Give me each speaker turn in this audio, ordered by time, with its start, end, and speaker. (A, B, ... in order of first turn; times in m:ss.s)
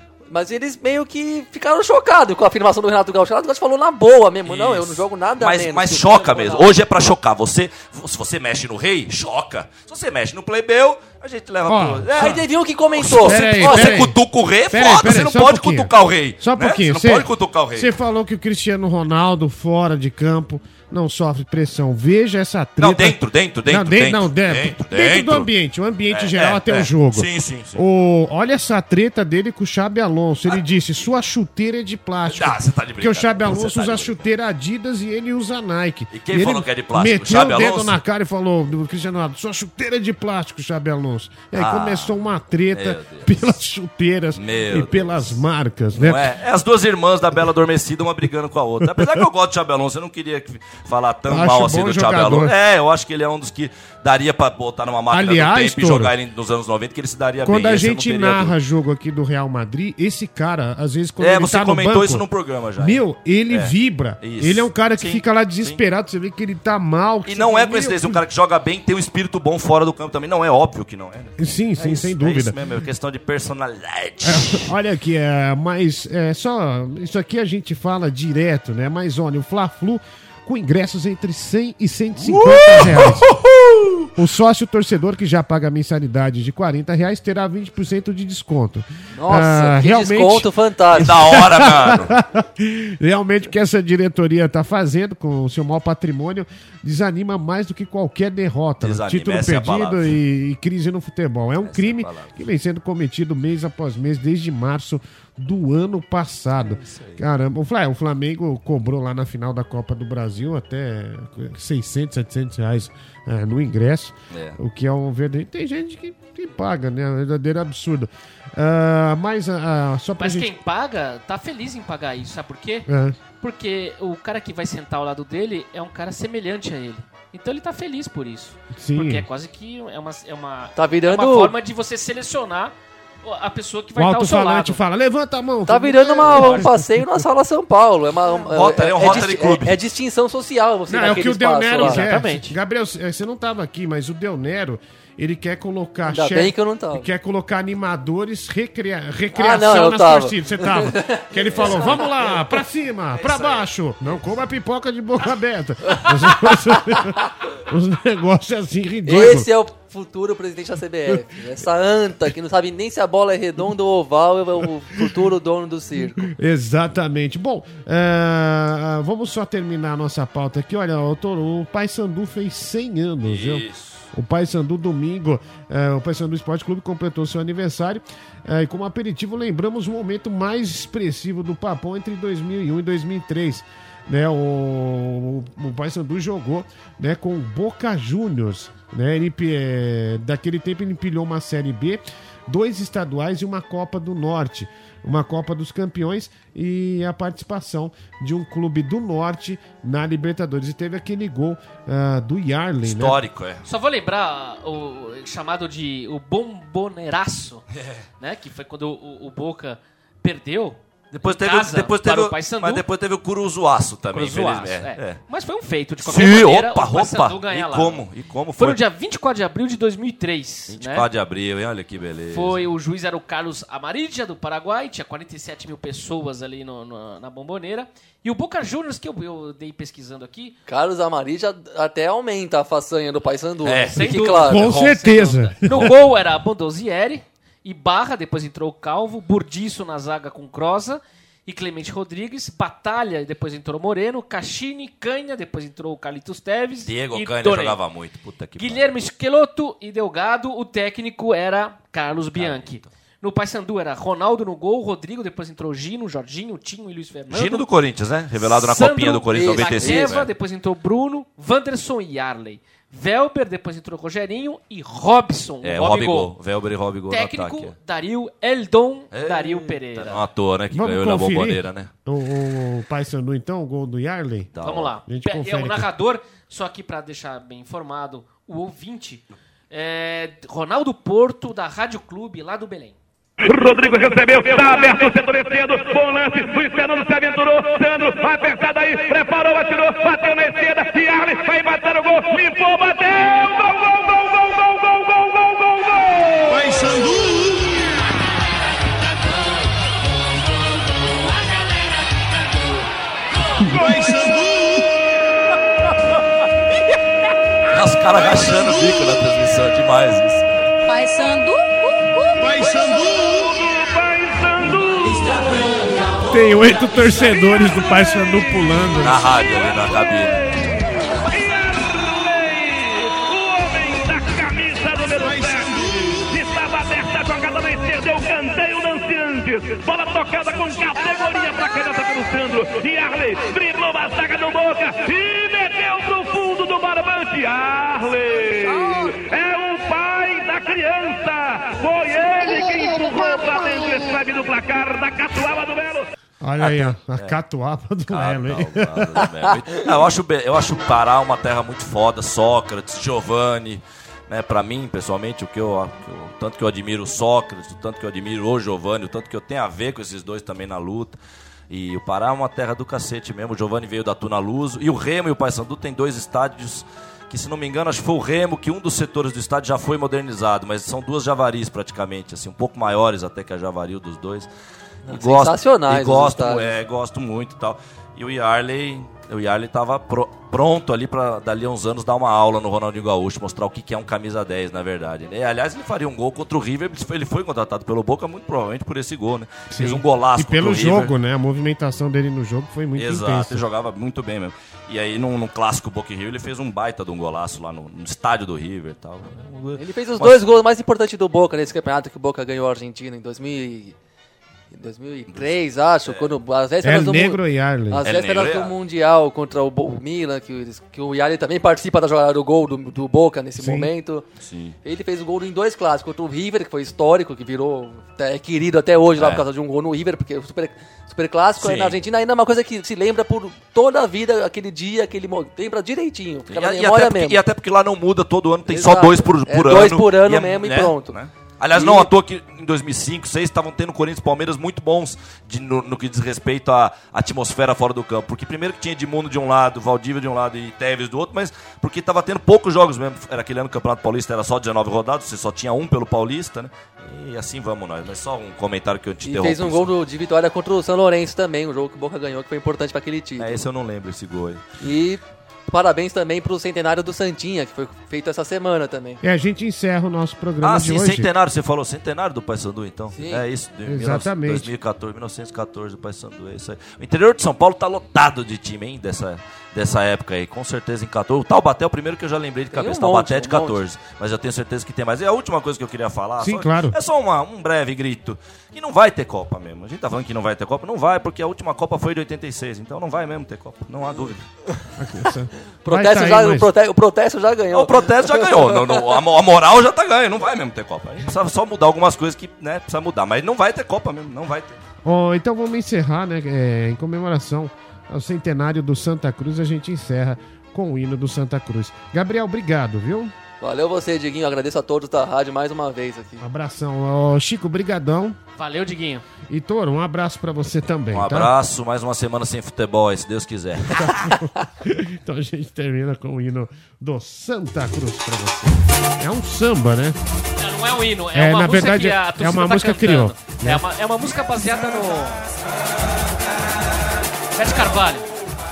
0:00.3-0:06.7 A
0:04.4-0:17.9 B
0:11.7-0:12.4 C
0:12.2-0:14.0 A
0:13.2-0:14.2 C
0:14.7-0:46.3 C
0:22.8-0:25.5 B
0:26.1-0:27.8 B
0:32.3-0:34.2 B
0:36.1-0:38.0 B
0:41.5-0:42.1 B
0:42.7-0:43.5 B
0:44.4-0:45.4 B
0:46.0-0:58.5 B
0:48.9-0:49.2 C
0:51.3-0:52.5 C
0:55.1-0:56.1 C
0:57.4-1:02.2 C
1:01.2-1:05.8 B
1:02.8-1:08.2 C
1:07.2-1:14.7 B
1:11.4-1:12.5 C
1:14.2-1:23.3 C
1:22.2-1:24.1 B
1:24.2-1:30.5 C
1:29.2-1:31.1 A
1:30.9-1:32.1 B
1:31.0-2:00.5 C
1:38.8-1:40.1 B
1:41.6-1:42.4 B
1:46.6-1:47.2 B
1:54.3-1:54.6 B
2:00.2-2:14.8 D
2:02.9-2:03.2 C
2:08.8-2:09.2 C
2:10.8-2:11.5 A
2:14.0-2:17.2 C
2:15.7-2:22.0 A
2:16.4-2:16.6 D
2:18.4-2:19.8 B
2:20.9-2:39.5 C
2:21.8-2:22.5 D
2:26.1-2:27.1 A
2:29.3-2:32.4 A
2:39.0-2:46.3 A
2:46.2-3:23.2 C
2:53.2-2:54.0 B
3:22.8-3:23.6 B
3:23.6-3:27.6 D
3:27.7-3:28.0 B
3:28.2-3:32.8 D
3:31.1-3:35.2 B
3:34.1-3:38.0 D
3:36.0-3:38.8 B
3:38.6-3:41.1 D
3:40.7-3:42.6 B
3:42.3-3:50.6 D
3:50.7-3:54.7 A
3:53.6-3:55.0 B
3:53.9-4:07.8 D
3:54.5-3:55.9 C
3:55.6-3:55.9 B
4:06.8-4:08.8 B
4:08.6-4:17.6 D
4:12.3-4:12.9 B
4:17.3-4:20.3 B
4:18.4-4:26.3 D
4:19.3-4:20.2 A
4:25.6-4:27.7 B
4:27.1-4:30.2 D
4:29.1-4:31.9 B
4:30.7-4:34.5 C
4:34.5-4:34.9 B
4:34.6-4:43.0 D
4:35.1-4:35.9 C
4:43.4-4:57.6 E
5:03.7-5:04.2 C
5:07.7-5:10.4 B
5:10.8-5:13.3 F
5:12.7-5:15.6 E
5:16.2-5:19.2 C
5:17.3-5:18.1 E
5:19.0-5:20.4 B
5:20.5-5:46.1 E
5:38.6-5:39.1 F
5:46.4-5:49.2 C
5:46.6-5:47.3 B
5:48.1-6:01.2 B
6:01.7-6:14.5 B
6:15.1-6:16.7 A
6:15.1-6:31.1 B
6:29.7-6:33.6 C
6:33.0-6:40.4 B
6:39.8-6:43.9 A
6:44.7-6:54.2 A
6:45.3-6:46.3 B
6:46.8-6:48.0 C
6:48.0-6:48.7 B
6:53.6-6:53.9 C
6:54.4-6:54.8 B
6:54.8-7:07.4 A
6:59.2-6:59.4 B
7:01.6-7:02.0 B
7:06.5-7:29.9 B
7:08.7-7:11.1 A
7:11.8-7:12.1 A
7:29.2-7:33.6 A
7:33.4-7:34.6 B
7:34.8-7:39.2 A
7:39.2-7:41.3 C
7:40.6-8:04.4 B
7:43.1-7:43.4 A
7:43.8-7:44.7 C
7:52.7-7:53.8 A
7:56.4-7:57.0 C
8:05.0-8:06.7 C
8:05.8-8:09.0 A
8:07.7-8:14.7 B
8:15.0-8:23.3 C
8:23.6-8:26.4 A
8:26.4-8:28.4 C
8:28.6-8:29.2 D
8:29.5-8:31.5 C
8:31.1-8:34.3 B
8:33.9-8:40.2 C
8:40.6-8:45.5 D
8:41.3-8:43.8 C
8:47.5-8:48.3 D